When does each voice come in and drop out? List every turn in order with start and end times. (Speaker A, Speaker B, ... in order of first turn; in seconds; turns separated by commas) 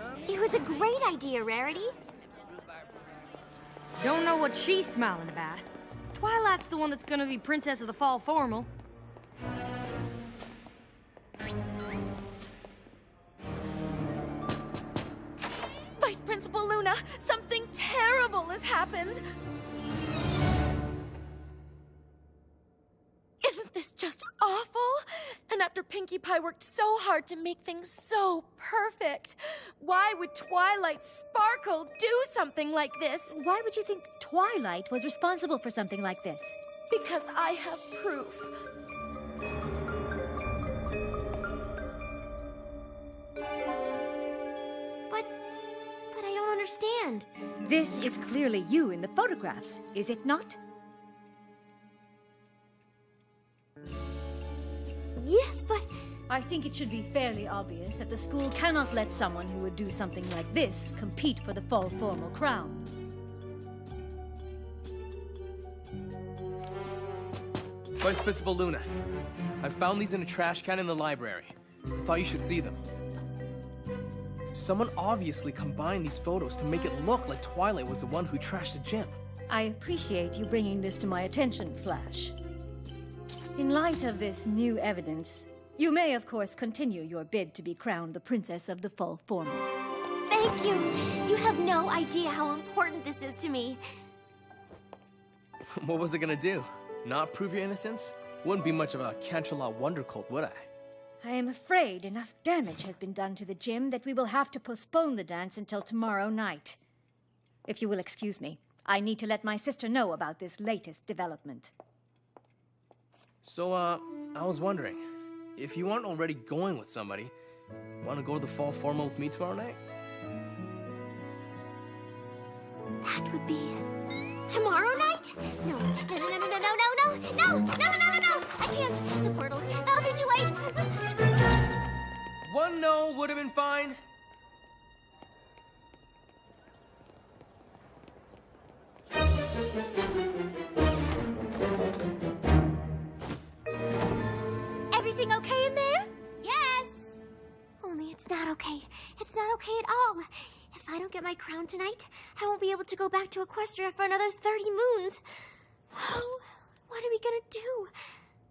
Speaker A: 0.3-1.9, Speaker B: 4.0-8.7, Speaker C: 16.0-19.2, Speaker C: 23.4-33.3, Speaker D: 33.3-36.6, Speaker C: 36.9-38.5, Speaker A: 46.1-47.3, Speaker D: 47.6-50.6, Speaker A: 55.2-55.9, Speaker D: 56.3-62.9, Speaker E: 68.0-68.9, Speaker E: 69.6-72.8, Speaker E: 74.5-79.2, Speaker D: 79.5-82.4, Speaker D: 83.6-89.7, Speaker A: 90.3-93.8, Speaker E: 95.8-100.7, Speaker D: 101.2-106.8, Speaker D: 107.7-111.7, Speaker E: 113.4-115.0, Speaker E: 115.6-117.3, Speaker E: 118.0-119.8, Speaker A: 123.0-123.9, Speaker A: 124.5-131.0, Speaker E: 132.5-134.0, Speaker A: 146.4-147.1, Speaker A: 147.8-155.2, Speaker A: 155.9-157.9